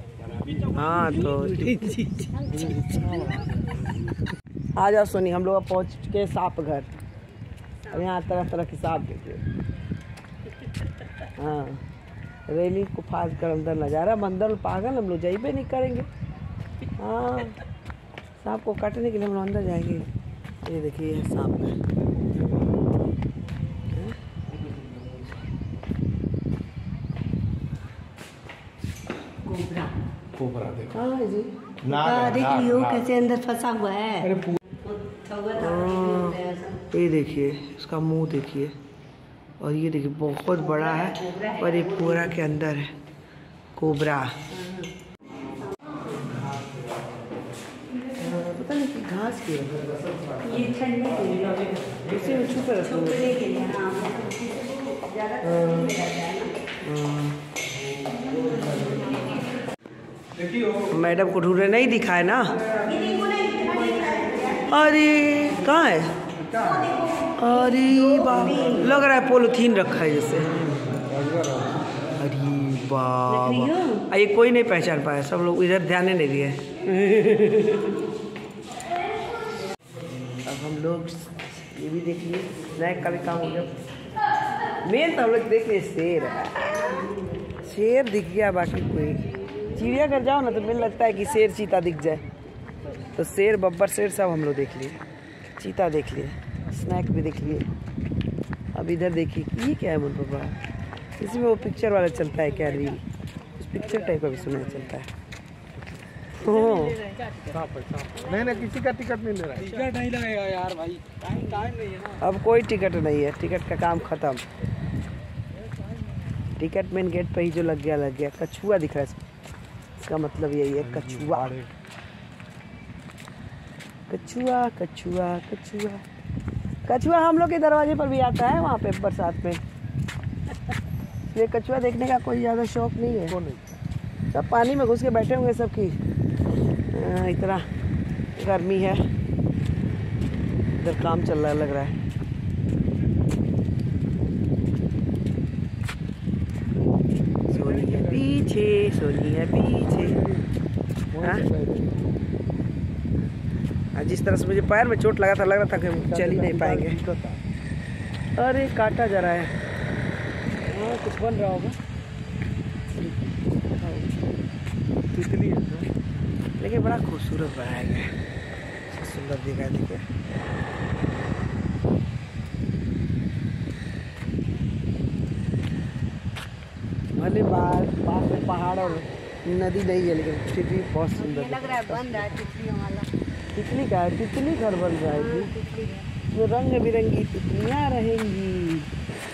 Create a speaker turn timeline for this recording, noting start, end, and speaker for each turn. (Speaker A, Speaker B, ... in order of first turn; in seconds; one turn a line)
Speaker A: 0.2-0.9
Speaker B: 0.7-1.7
Speaker C: 1.0-2.5
Speaker B: 2.5-3.1
Speaker A: 2.5-3.9
Speaker B: 4.8-6.9
Speaker C: 7.8-8.1
Speaker B: 7.9-9.4
Speaker C: 10.6-11.3
Speaker B: 11.4-11.8
Speaker B: 12.5-16.1
Speaker B: 17.0-17.6
Speaker B: 18.4-20.1
Speaker B: 20.6-21.8
Speaker A: 22.2-22.7
Speaker B: 23.9-24.2
Speaker A: 24.7-25.2
Speaker C: 29.4-29.9
Speaker A: 30.3-31.0
Speaker B: 30.9-31.6
Speaker A: 31.8-33.1
Speaker C: 31.9-36.8
Speaker A: 34.3-34.6
Speaker B: 35.6-38.8
Speaker B: 39.6-42.9
Speaker C: 40.6-42.3
Speaker B: 43.8-44.4
Speaker C: 44.5-44.9
Speaker A: 46.2-46.8
Speaker B: 48.2-50.4
Speaker C: 50.4-56.5
Speaker B: 52.1-53.4
Speaker B: 55.4-56.0
Speaker B: 56.8-57.5
Speaker A: 58.0-59.3
Speaker C: 58.8-59.4
Speaker A: 60.3-60.9
Speaker B: 60.9-62.6
Speaker C: 62.8-65.3
Speaker B: 64.7-66.2
Speaker A: 66.4-66.9
Speaker C: 66.5-68.9
Speaker B: 67.4-70.8
Speaker A: 70.6-71.9
Speaker B: 72.2-76.6
Speaker C: 73.3-74.1
Speaker C: 76.9-77.9
Speaker B: 80.3-83.7
Speaker B: 84.8-87.0
Speaker B: 87.6-92.2
Speaker B: 93.1-97.7
Speaker B: 98.7-100.6
Speaker B: 101.2-103.0
Speaker B: 103.6-105.1
Speaker B: 106.4-107.0
Speaker A: 107.4-110.8
Speaker B: 112.2-114.4
Speaker B: 116.5-119.2
Speaker B: 120.0-121.5
Speaker A: 120.8-121.7
Speaker B: 124.1-126.0
Speaker B: 126.8-129.6
Speaker B: 131.3-133.4
Speaker A: 133.3-133.8
Speaker B: 134.3-136.0
Speaker B: 136.9-137.7
Speaker B: 138.4-139.0
Speaker B: 140.8-142.0
Speaker A: 147.5-148.5
Speaker B: 147.5-150.2
Speaker A: 150.0-150.3
Speaker A: 151.1-152.1
Speaker B: 153.9-157.0
Speaker A: 156.0-157.4
Speaker B: 158.4-159.5
Speaker B: 160.7-161.7
Speaker B: 163.0-164.2
Speaker A: 165.1-165.9
Speaker B: 166.6-168.1
Speaker B: 168.9-170.1
Speaker B: 177.2-182.4
Speaker C: 178.8-179.0
Speaker C: 181.2-183.1
Speaker B: 183.5-185.5
Speaker C: 185.1-186.1
Speaker B: 186.3-188.9